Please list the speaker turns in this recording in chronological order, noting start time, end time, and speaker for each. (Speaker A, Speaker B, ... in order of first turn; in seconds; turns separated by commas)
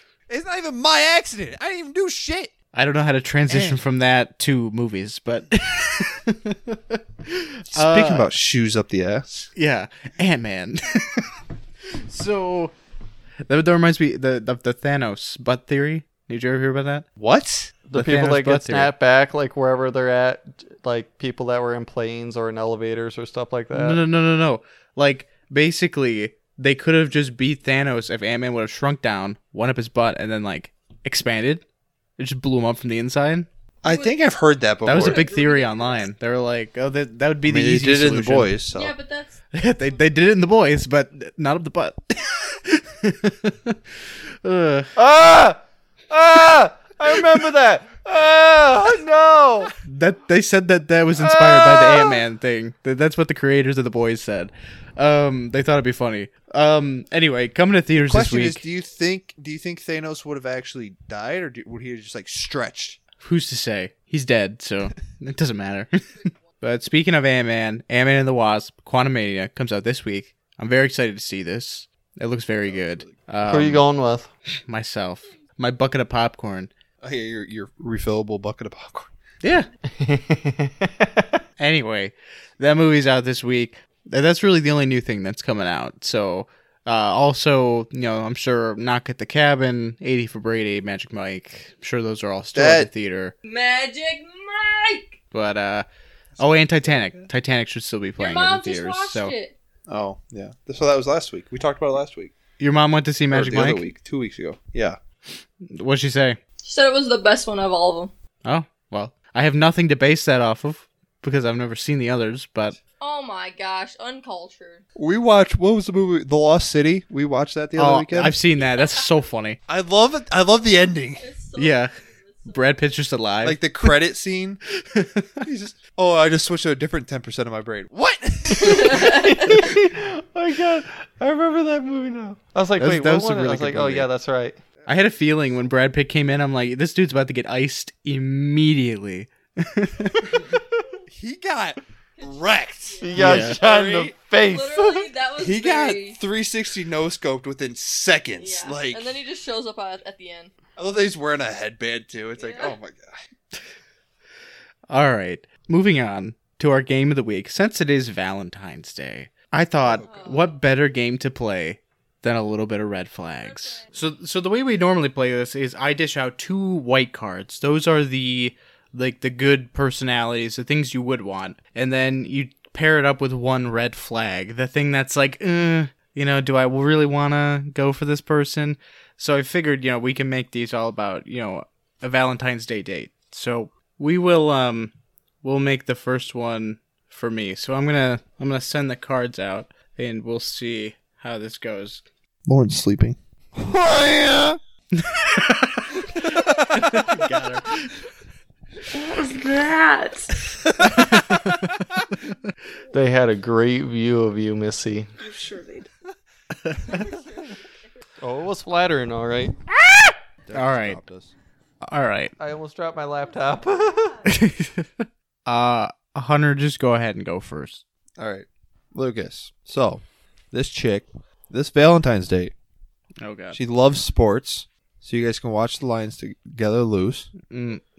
Speaker A: 0.3-2.5, Speaker B: 2.7-8.3, Speaker A: 3.5-3.8, Speaker A: 7.7-9.5, Speaker B: 9.5-11.3, Speaker B: 11.9-12.7, Speaker B: 13.5-17.0, Speaker A: 17.2-17.7, Speaker C: 17.9-24.0, Speaker B: 17.9-18.9, Speaker B: 23.7-31.6, Speaker B: 32.2-33.5, Speaker A: 33.8-35.3, Speaker D: 33.8-34.3, Speaker B: 34.8-38.5, Speaker D: 34.9-36.1, Speaker A: 37.5-38.9, Speaker D: 38.7-39.4, Speaker B: 39.5-43.8, Speaker B: 44.4-44.9, Speaker C: 45.0-49.7, Speaker B: 49.8-58.6, Speaker C: 51.1-52.2, Speaker A: 58.1-63.0, Speaker B: 63.2-73.8, Speaker A: 72.6-73.3, Speaker C: 73.5-74.3, Speaker B: 74.7-76.7, Speaker A: 77.0-79.1, Speaker B: 79.4-79.7, Speaker C: 80.0-81.4, Speaker B: 81.6-93.3, Speaker A: 92.5-92.9, Speaker D: 93.4-95.2, Speaker B: 95.3-95.8, Speaker A: 96.3-97.3, Speaker B: 96.4-99.3, Speaker D: 98.2-99.5, Speaker A: 99.9-102.3, Speaker B: 102.6-103.8, Speaker A: 103.3-105.0, Speaker B: 105.7-106.4, Speaker D: 106.6-108.1, Speaker B: 108.4-112.8, Speaker D: 113.0-114.8, Speaker A: 115.0-118.3, Speaker B: 117.8-119.6, Speaker D: 118.7-119.0, Speaker A: 119.7-121.3, Speaker D: 121.2-122.8, Speaker B: 121.6-121.9, Speaker B: 122.5-123.9, Speaker A: 123.4-124.6, Speaker B: 124.8-125.5, Speaker A: 125.4-129.5, Speaker C: 128.5-134.6, Speaker D: 128.6-129.6, Speaker B: 132.8-134.1, Speaker B: 134.8-140.5, Speaker A: 141.1-144.1, Speaker D: 142.2-143.4, Speaker C: 143.0-145.1, Speaker B: 143.2-143.6, Speaker D: 144.4-146.2, Speaker A: 145.4-149.1, Speaker D: 148.4-150.5, Speaker A: 150.8-153.2, Speaker D: 152.4-152.8, Speaker B: 154.9-184.9, Speaker A: 159.8-160.4, Speaker D: 160.0-160.6, Speaker D: 163.4-163.9, Speaker B: 185.4-192.0, Speaker A: 192.4-194.6, Speaker B: 194.9-197.9, Speaker E: 198.9-200.6, Speaker B: 200.8-201.7, Speaker C: 202.9-205.1, Speaker E: 205.2-205.9, Speaker B: 206.7-207.0, Speaker D: 207.0-207.5, Speaker C: 208.2-209.5, Speaker A: 210.4-211.3, Speaker B: 210.5-211.0, Speaker B: 211.8-212.3, Speaker C: 212.4-214.2, Speaker B: 214.2-217.8, Speaker A: 218.2-222.5, Speaker B: 223.2-223.6, Speaker A: 223.5-227.3, Speaker B: 227.5-227.8